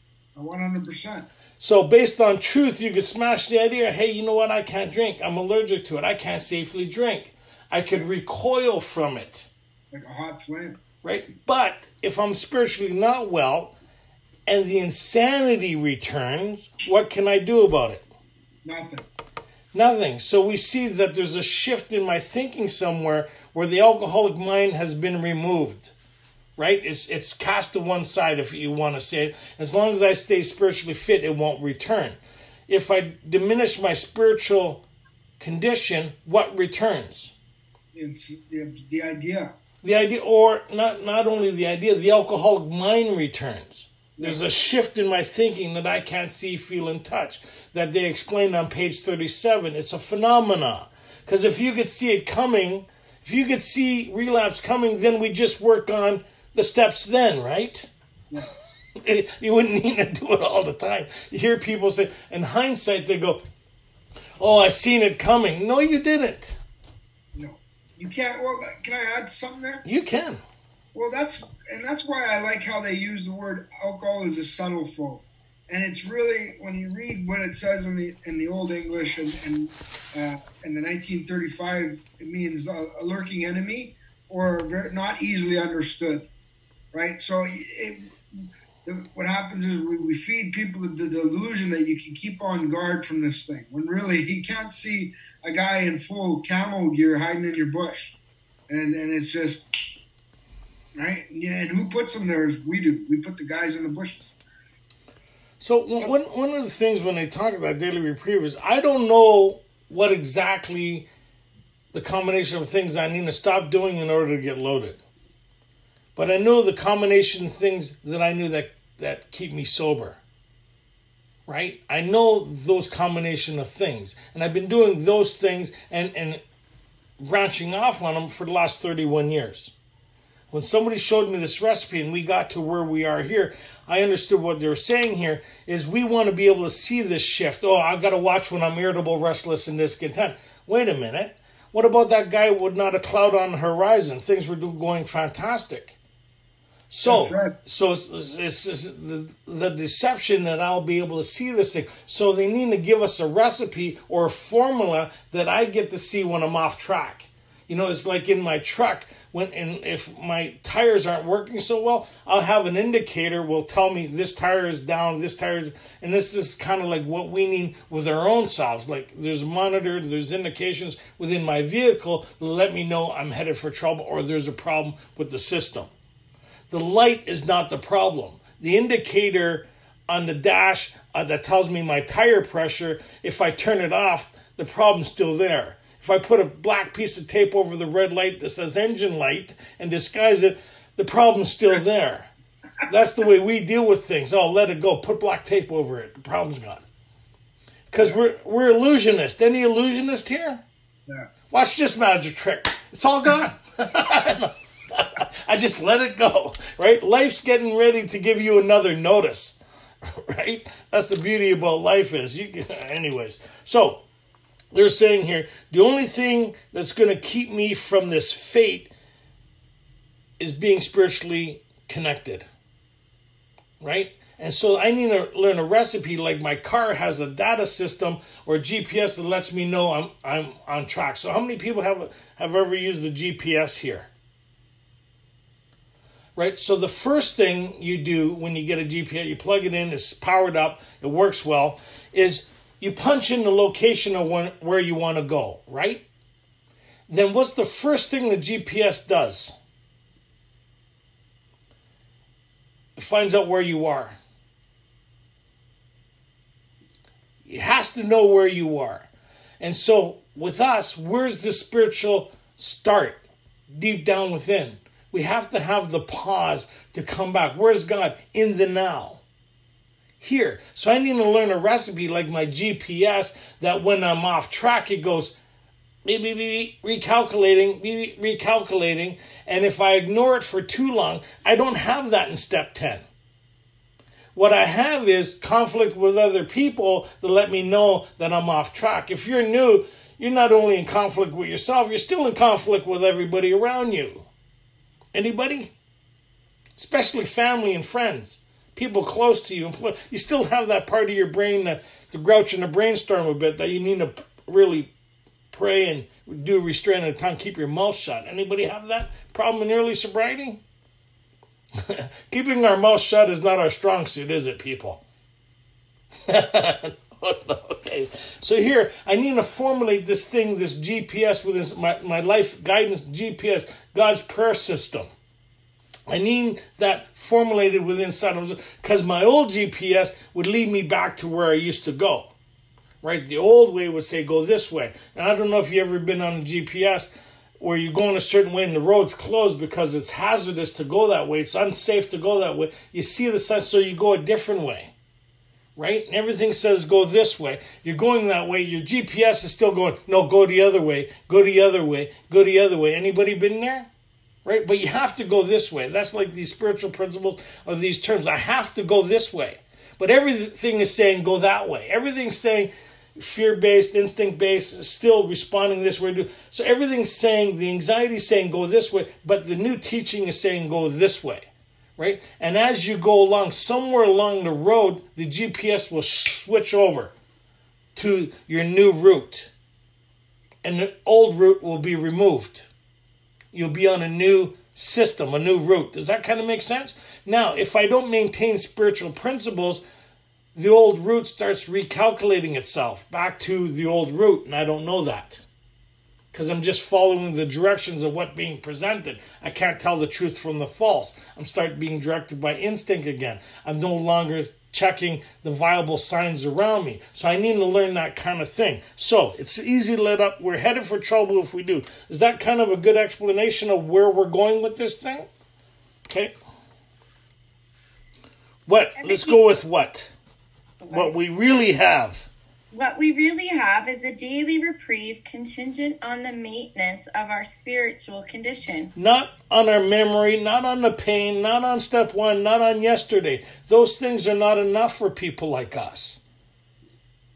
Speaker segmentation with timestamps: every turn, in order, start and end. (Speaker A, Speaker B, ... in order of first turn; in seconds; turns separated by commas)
Speaker A: 0.3-1.3, Speaker B: 1.6-9.5, Speaker A: 9.9-10.8, Speaker B: 11.0-13.7, Speaker B: 14.4-18.0, Speaker A: 18.6-19.0, Speaker B: 19.7-25.9, Speaker B: 26.6-34.8, Speaker B: 35.4-37.3, Speaker A: 37.9-39.5, Speaker B: 39.8-57.9, Speaker A: 44.2-44.4, Speaker B: 59.0-63.4, Speaker B: 64.4-66.6, Speaker A: 67.3-69.8, Speaker B: 69.8-70.4, Speaker A: 70.9-86.3, Speaker A: 86.9-98.2, Speaker A: 98.7-99.9, Speaker A: 100.9-104.3, Speaker B: 105.6-111.1, Speaker B: 111.9-115.0, Speaker B: 116.2-120.2, Speaker B: 121.5-126.4, Speaker B: 127.2-129.7, Speaker B: 130.5-145.9, Speaker B: 146.9-175.9, Speaker A: 147.0-147.5, Speaker B: 176.7-192.3, Speaker B: 192.8-196.8, Speaker B: 197.9-200.6, Speaker B: 201.5-214.0, Speaker B: 214.7-218.9, Speaker B: 220.4-222.5, Speaker B: 223.8-234.1, Speaker B: 236.3-246.1, Speaker B: 247.1-249.5, Speaker B: 252.9-254.2, Speaker B: 257.4-269.2, Speaker B: 270.2-275.3, Speaker B: 276.0-283.0, Speaker B: 284.3-294.2, Speaker B: 295.1-295.7, Speaker B: 296.8-304.9, Speaker B: 305.5-310.6, Speaker B: 311.8-315.0, Speaker B: 316.3-325.1, Speaker B: 326.1-332.3, Speaker B: 333.0-344.9, Speaker B: 345.8-353.9, Speaker B: 354.4-377.1, Speaker B: 377.9-379.5, Speaker B: 380.6-382.7, Speaker B: 383.5-389.8, Speaker B: 390.5-395.4, Speaker B: 396.3-415.3, Speaker B: 416.1-416.3, Speaker B: 418.6-420.1, Speaker C: 419.0-419.4, Speaker C: 420.8-421.1, Speaker B: 420.9-422.3, Speaker C: 422.7-428.9, Speaker B: 428.9-436.2